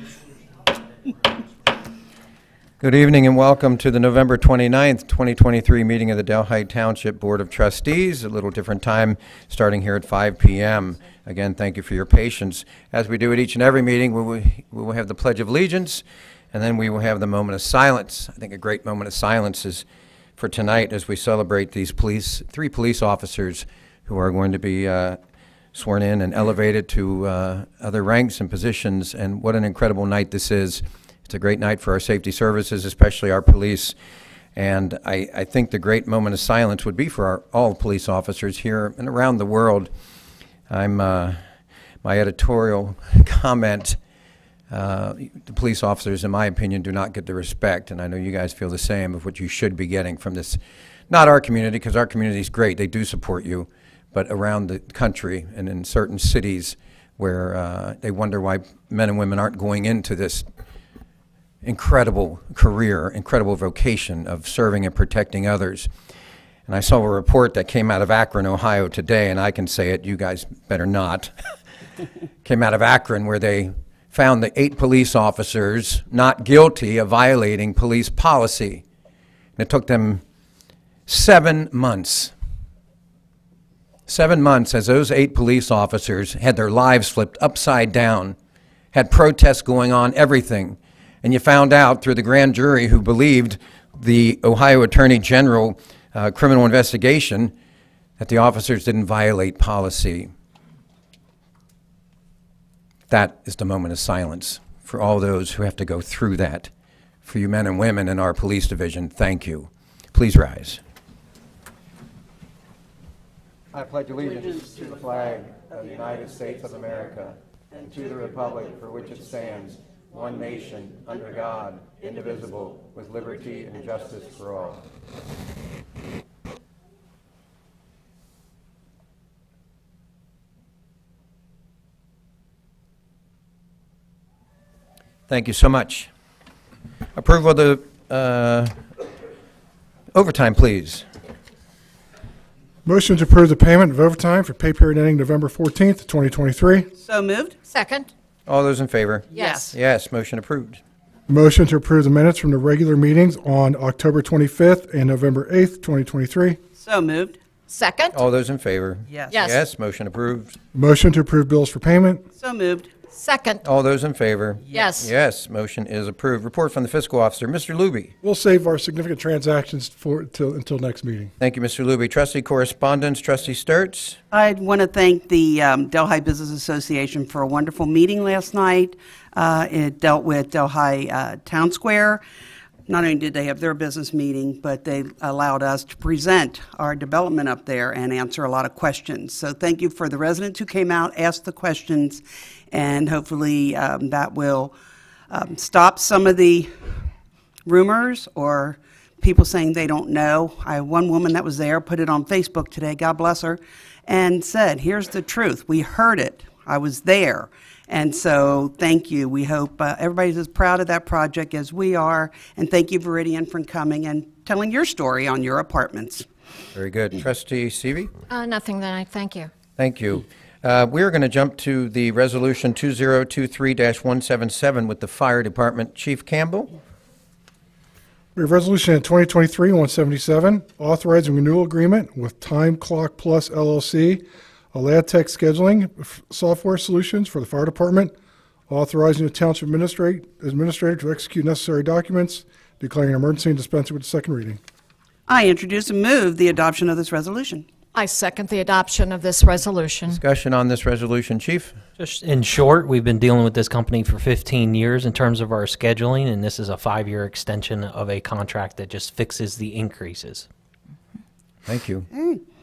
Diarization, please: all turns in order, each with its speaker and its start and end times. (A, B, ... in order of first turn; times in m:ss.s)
0:02.8-0:19.8 A
0:20.4-0:25.2 A
0:25.7-0:34.0 A
0:34.5-0:39.9 A
0:40.7-0:41.4 A
0:42.0-0:44.0 A
0:44.7-1:00.4 A
1:01.6-1:05.9 A
1:06.7-1:11.4 A
1:12.4-1:18.8 A
1:19.6-1:20.2 A
1:21.1-1:22.3 A
1:24.1-1:28.4 A
1:28.9-1:37.5 A
1:38.2-1:40.3 A
1:43.1-1:46.7 A
1:47.2-1:50.8 A
1:53.7-2:04.8 A
2:15.3-2:16.1 A
2:17.1-2:19.0 A
2:20.1-2:21.0 A
2:22.8-2:26.9 B
2:27.0-2:27.6 C
2:27.6-2:28.1 D
2:28.4-2:30.8 A
2:29.3-2:29.7 D
2:29.3-2:29.7 C
2:31.3-2:36.6 B
2:36.8-2:37.4 C
2:37.7-2:38.2 D
2:38.1-2:40.6 A
2:39.1-2:39.4 C
2:39.3-2:39.6 D
2:40.7-2:42.2 B
2:42.4-2:42.9 C
2:43.1-2:43.6 D
2:43.6-2:48.1 A
2:44.6-2:44.9 C
2:44.7-2:45.1 D
2:48.2-2:51.3 B
2:51.4-2:54.2 A
2:54.3-3:02.2 C
3:02.9-3:14.7 C
3:15.3-3:17.0 C
3:17.6-3:36.3 C
3:36.7-3:38.1 A
3:38.3-3:39.5 D
3:39.8-3:46.7 A
3:48.3-3:58.1 B
3:58.7-4:04.6 B
4:05.3-4:07.6 C
4:07.9-4:10.2 D
4:10.1-4:11.8 A
4:12.0-4:20.5 E
4:21.6-4:22.1 A
4:22.1-4:22.4 C